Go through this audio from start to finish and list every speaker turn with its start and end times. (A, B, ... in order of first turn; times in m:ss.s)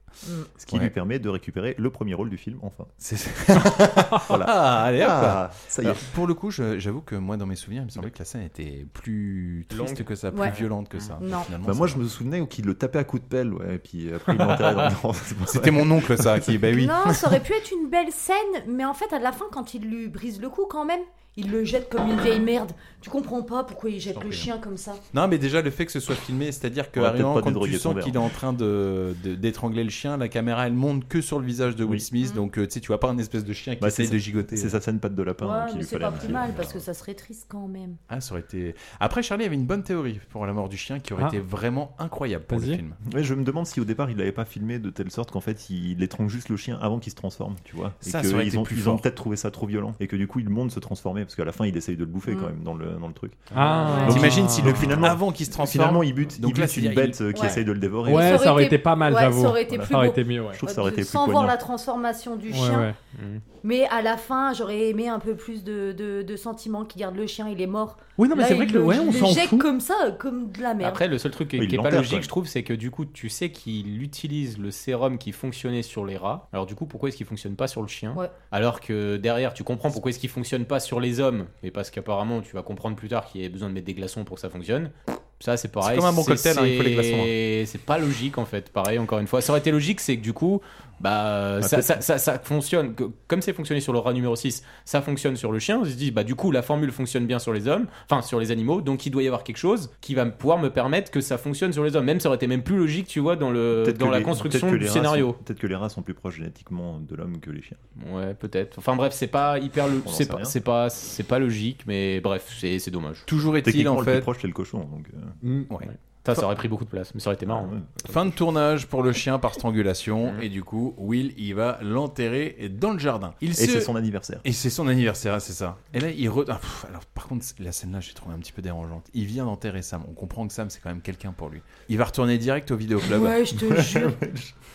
0:00.2-0:00.5 A
0:00.6-0:02.9 B
0:03.0-0:12.0 C
0:04.2-0:06.0 B
0:09.7-0:11.1 D
0:11.2-0:11.5 A
0:11.6-0:16.6 B
0:15.5-0:17.4 C
0:16.7-0:25.0 A
0:24.1-0:24.5 C
0:25.1-0:34.8 C
0:27.0-0:28.2 B
0:33.8-0:36.7 B
0:35.4-0:38.0 A
0:36.1-0:36.8 C
0:38.1-0:43.0 C
0:42.5-0:42.8 E
0:43.0-0:53.4 B
0:48.0-0:49.0 C
0:52.3-0:52.5 A
0:53.5-0:55.0 E
0:53.6-0:54.0 D
0:53.8-0:54.4 A
0:54.0-0:58.7 B
0:54.0-0:57.6 C
0:57.3-1:02.9 A
0:58.1-1:00.6 E
0:59.7-1:00.0 B
1:00.5-1:01.6 B
1:02.5-1:03.0 E
1:03.2-1:03.4 D
1:03.6-1:11.0 A
1:08.2-1:09.7 E
1:10.8-1:45.4 D
1:11.6-1:12.3 B
1:25.8-1:27.3 C
1:43.7-1:47.8 B
1:48.0-1:53.3 D
1:49.9-1:50.6 B
1:53.3-1:54.3 C
1:53.6-1:55.4 B
1:55.4-1:55.7 E
1:55.9-1:57.7 D
1:57.5-1:58.1 B
1:58.0-2:03.9 C
2:03.6-2:04.4 B
2:04.4-2:13.4 C
2:13.0-2:14.2 A
2:13.5-2:14.5 B